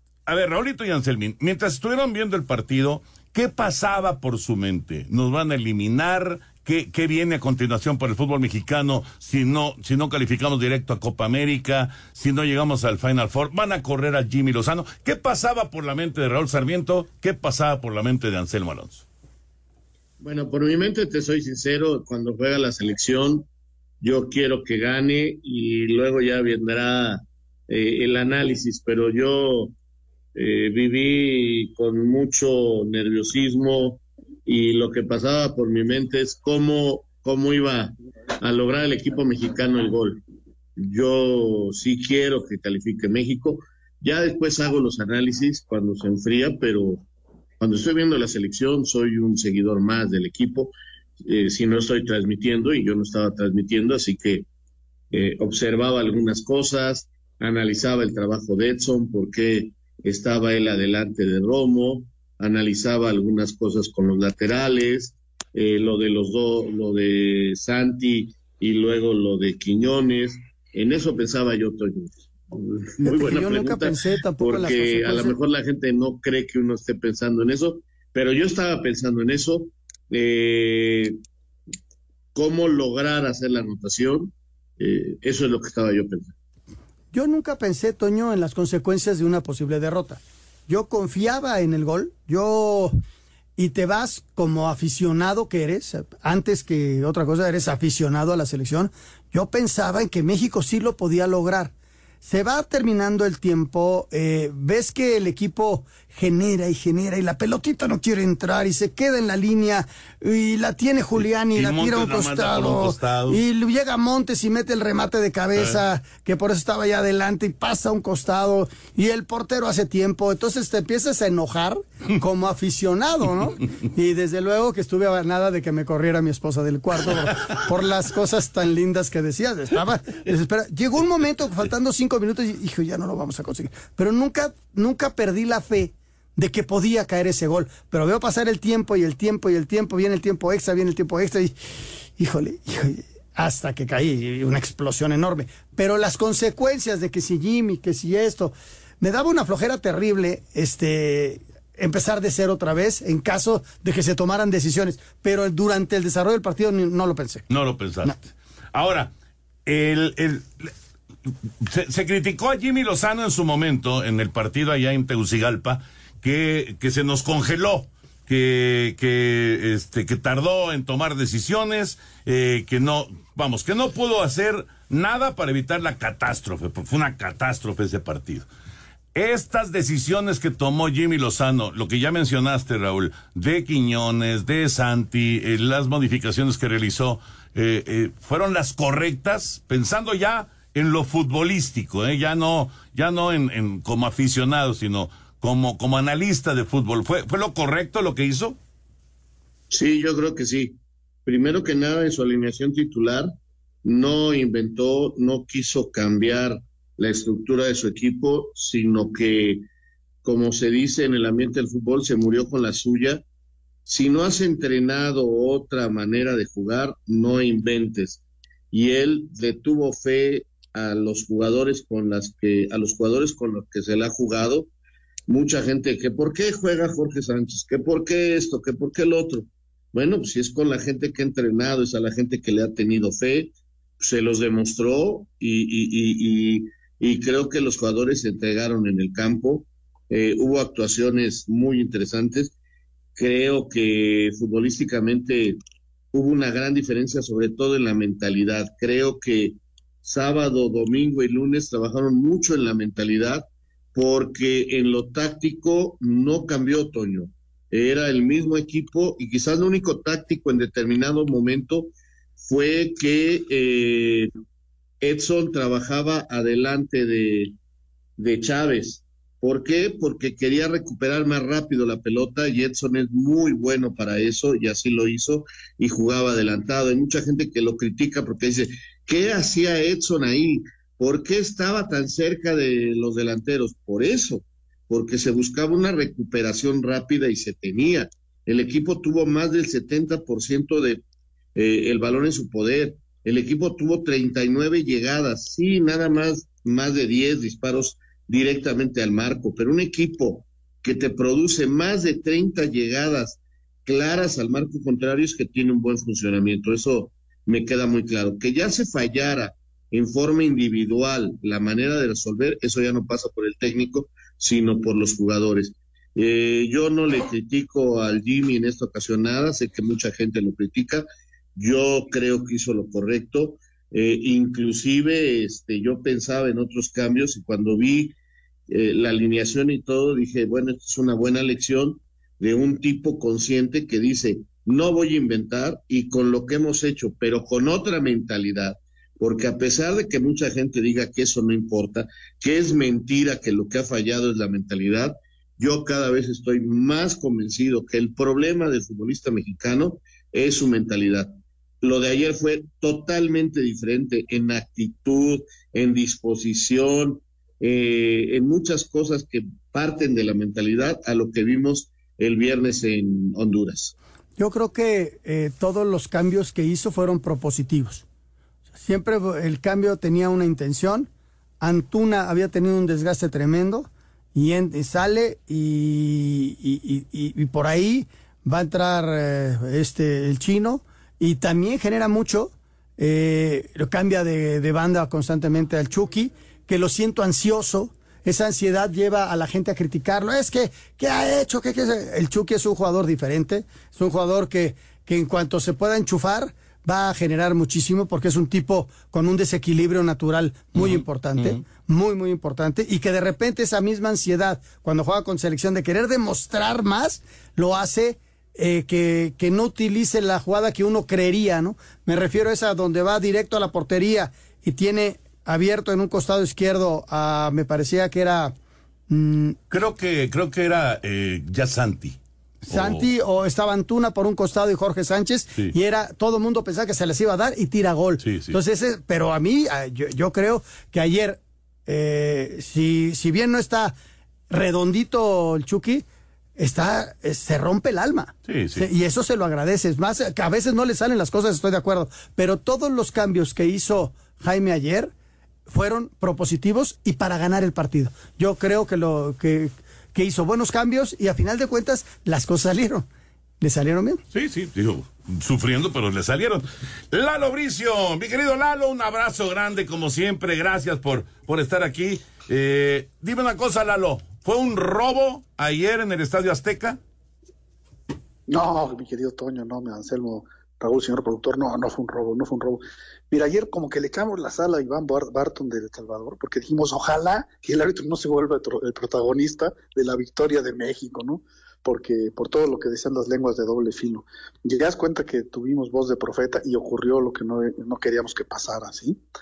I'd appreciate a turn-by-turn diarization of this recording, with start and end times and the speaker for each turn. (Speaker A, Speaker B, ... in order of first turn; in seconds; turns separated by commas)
Speaker A: 0.3-19.0, Speaker B: 20.2-23.5, Speaker B: 24.0-29.7, Speaker B: 30.4-40.2, Speaker B: 40.8-47.0, Speaker B: 47.6-54.5, Speaker B: 55.1-81.2, Speaker C: 73.0-75.3, Speaker B: 82.3-86.3, Speaker C: 87.1-93.0, Speaker C: 93.6-141.6, Speaker A: 111.5-113.4, Speaker C: 142.2-157.5, Speaker A: 157.5-158.2, Speaker A: 158.7-159.1, Speaker A: 159.7-160.7, Speaker A: 161.6-178.5, Speaker A: 179.2-198.6, Speaker B: 199.7-203.3, Speaker B: 203.8-209.6, Speaker B: 210.2-213.2, Speaker B: 213.9-224.7, Speaker B: 225.3-242.5, Speaker B: 243.2-245.6, Speaker B: 246.1-264.3, Speaker B: 265.0-267.5, Speaker B: 268.2-291.0, Speaker B: 291.6-328.1, Speaker B: 328.7-363.9, Speaker C: 364.4-368.0, Speaker C: 368.8-371.1, Speaker C: 371.6-418.6, Speaker A: 400.8-401.6, Speaker C: 419.1-419.6, Speaker A: 419.7-422.2, Speaker C: 422.7-433.9, Speaker A: 422.7-423.1, Speaker A: 428.2-428.6, Speaker C: 434.5-436.1, Speaker C: 436.6-445.1, Speaker A: 438.5-438.9, Speaker C: 445.7-453.1, Speaker C: 453.6-454.2, Speaker A: 454.3-467.0, Speaker D: 468.5-489.2